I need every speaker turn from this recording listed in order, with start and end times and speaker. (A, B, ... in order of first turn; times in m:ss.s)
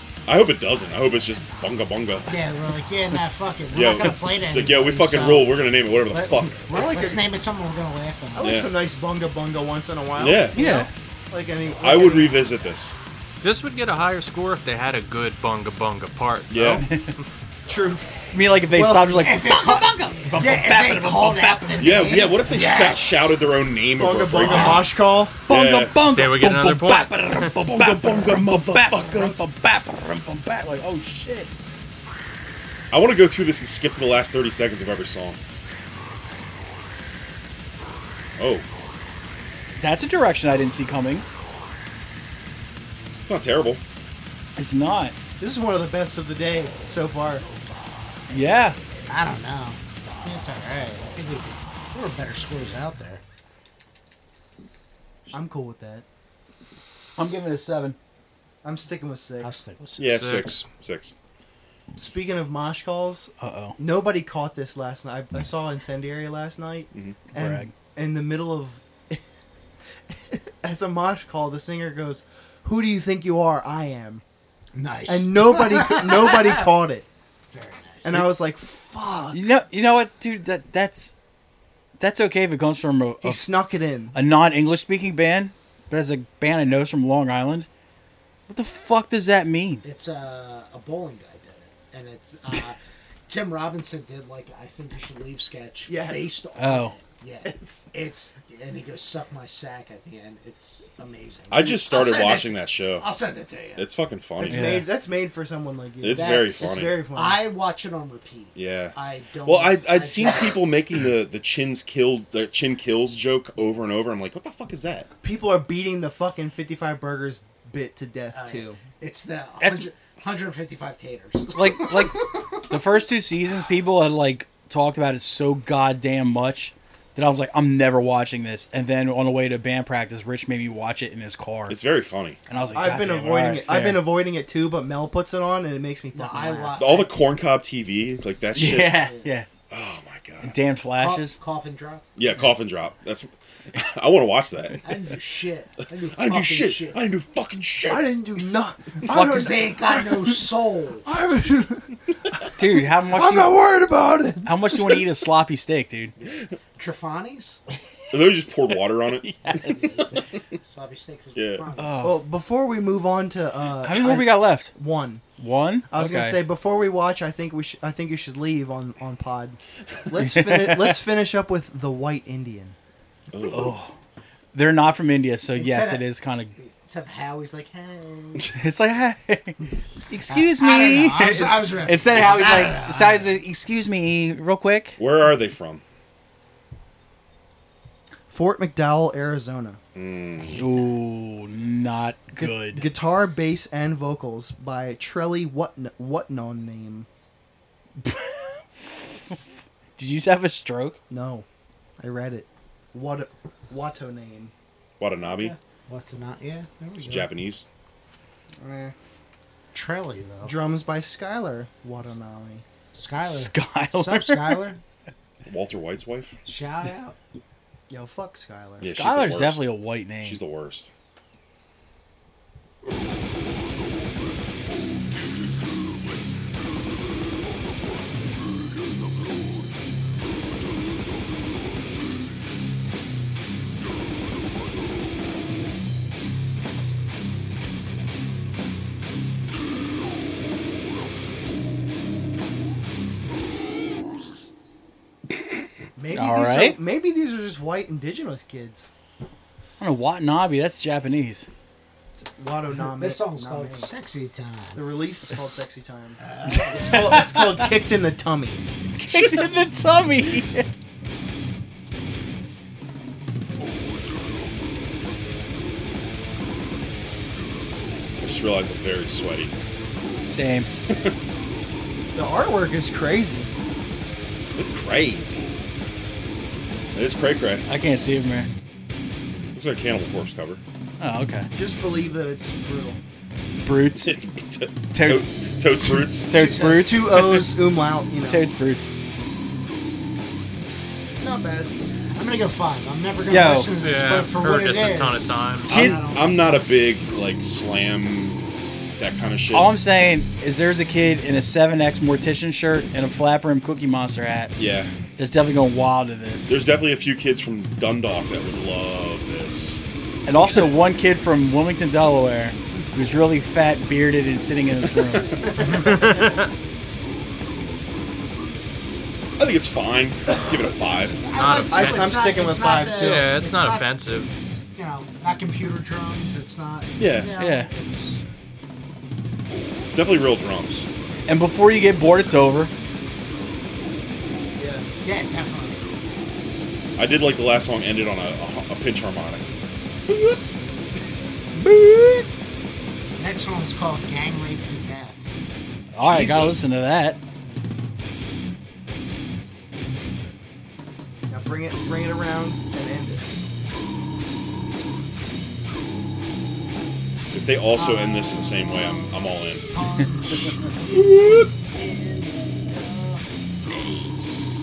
0:00.3-0:02.4 A
0:02.3-0:05.6 B
0:03.7-0:06.6 A
0:06.1-0:08.6 B
0:06.7-0:07.3 C
0:08.3-0:12.4 C
0:08.4-0:08.7 A
0:10.2-0:10.6 A
0:10.5-0:10.9 D
0:11.8-0:13.0 A
0:13.4-0:16.8 E
0:16.5-0:16.8 A
0:16.8-0:17.1 D
0:17.7-0:18.0 C
0:18.3-0:22.3 D
0:18.8-0:19.1 C
0:18.8-0:23.4 B
0:21.8-0:24.9 A
0:24.0-0:25.4 C
0:24.4-0:24.9 B
0:25.5-0:26.0 A
0:25.5-0:31.5 D
0:26.1-0:27.5 E
0:27.7-0:29.4 A
0:32.9-0:35.4 A
0:38.4-0:38.7 A
0:39.8-0:41.2 D
0:43.2-0:43.8 A
0:44.6-0:45.2 D
0:45.4-0:47.5 C
0:48.3-0:48.8 D
0:49.1-0:53.2 B
0:55.3-0:56.0 C
0:57.2-0:58.0 D
0:58.6-0:59.6 C
0:59.4-1:00.2 B
1:00.0-1:01.1 A
1:00.1-1:00.5 E
1:02.0-1:09.2 C
1:03.4-1:03.8 D
1:07.3-1:07.7 D
1:10.1-1:14.2 C
1:14.7-1:16.7 B
1:15.1-1:17.1 C
1:17.5-1:18.3 B
1:18.0-1:19.4 C
1:19.3-1:21.1 D
1:22.0-1:23.4 D
1:23.2-1:24.2 C
1:24.1-1:27.7 D
1:28.5-1:29.8 D
1:29.8-1:43.9 B
1:35.9-1:36.4 C
1:36.6-1:37.0 D
1:37.5-1:37.9 C
1:41.5-1:43.1 A
1:43.8-1:44.8 A
1:44.4-1:47.5 C
1:44.5-1:44.9 D
1:46.0-1:47.0 A
1:46.0-1:50.7 B
1:48.6-1:55.1 A
1:55.2-1:58.8 C
1:58.3-2:02.8 B
1:59.6-1:59.9 D
2:01.5-2:11.8 D
2:11.7-2:12.4 A
2:12.5-2:14.0 D
2:12.7-2:17.0 C
2:16.1-2:17.2 B
2:16.8-2:19.0 A
2:18.5-2:19.5 D
2:18.8-2:19.3 B
2:19.7-2:20.6 A
2:20.4-2:21.4 D
2:21.0-2:22.0 B
2:22.2-2:24.9 A
2:24.8-2:27.0 B
2:26.2-2:28.1 A
2:27.9-2:30.4 C
2:29.1-2:29.5 D
2:29.2-2:31.1 B
2:31.0-2:35.0 C
2:32.6-2:33.6 D
2:34.4-2:36.1 D
2:36.2-2:37.6 B
2:38.1-2:39.3 A
2:39.2-2:40.1 D
2:39.6-2:42.2 B
2:41.4-2:41.7 A
2:41.8-2:42.2 D
2:42.0-2:45.2 C
2:43.8-2:44.7 D
2:45.4-2:46.4 D
2:45.9-2:52.8 C
2:50.2-2:51.0 D
2:53.3-2:53.8 A
2:53.5-2:53.9 D
2:54.5-2:56.6 D
2:55.5-2:58.5 B
2:58.5-3:05.0 D
3:00.3-3:03.4 B
3:01.2-3:01.7 C
3:05.0-3:05.8 A
3:08.3-3:09.8 C
3:10.0-3:10.6 A
3:10.4-3:10.8 B
3:10.6-3:12.9 D
3:12.4-3:17.1 C
3:18.0-3:19.3 D
3:20.0-3:21.0 D
3:21.1-3:21.5 C
3:22.0-3:24.5 C
3:25.0-3:25.6 A
3:25.2-3:27.3 B
3:27.0-3:27.6 A
3:28.6-3:29.0 C
3:29.7-3:30.6 B
3:30.4-3:32.6 C
3:32.9-3:34.8 B
3:33.2-3:34.7 D
3:35.5-3:36.4 A
3:36.4-3:37.2 B
3:37.9-3:38.9 C
3:38.8-3:40.9 A
3:38.8-3:40.4 D
4:06.0-4:08.9 C
4:06.1-4:06.8 D
4:09.8-4:11.5 D
4:12.4-4:13.9 C
4:12.8-4:15.0 B
4:14.8-4:18.6 C
4:16.2-4:17.3 B
4:16.5-4:17.4 D
4:19.0-4:20.7 D
4:19.0-4:19.5 A
4:28.2-4:29.5 A
4:30.3-4:30.7 D
4:30.9-4:31.1 A
4:32.1-4:33.5 C
4:34.6-4:35.6 A
4:36.9-4:37.6 A
4:37.7-4:38.5 D
4:39.5-4:40.6 A
4:41.0-4:41.5 D
4:41.5-4:43.0 C
4:43.5-4:44.2 D
4:44.0-4:46.3 A
4:44.9-4:45.3 D
4:45.8-4:47.6 D
4:46.3-4:47.2 B
4:46.5-4:48.5 C
4:48.3-4:48.9 D
4:51.2-4:51.8 C
4:52.1-4:56.6 B
4:53.3-4:53.8 D
4:53.8-4:55.9 E
4:55.7-4:56.1 D
4:55.7-4:58.4 A
4:59.0-4:59.8 A
4:59.5-5:04.6 D
5:04.6-5:04.9 A
5:05.2-5:06.5 D
5:06.5-5:09.8 A
5:10.3-5:15.8 D
5:15.4-5:16.3 C
5:15.7-5:16.5 E
5:19.4-5:21.3 A
5:21.2-5:28.2 B
5:21.3-5:22.2 E
5:21.5-5:23.4 C
5:22.9-5:24.3 E
5:27.0-5:27.3 A
5:27.4-5:27.7 D
5:29.5-5:30.9 A
5:31.3-5:32.7 D
5:34.6-5:34.9 C
5:35.0-5:35.8 B
5:37.0-5:39.5 A
5:41.6-5:41.9 A
5:43.2-5:45.3 B
5:45.9-5:47.2 D
5:46.0-5:46.7 A
5:51.3-5:53.2 C
5:57.3-5:59.7 A
5:57.8-6:03.2 B
6:00.9-6:01.4 A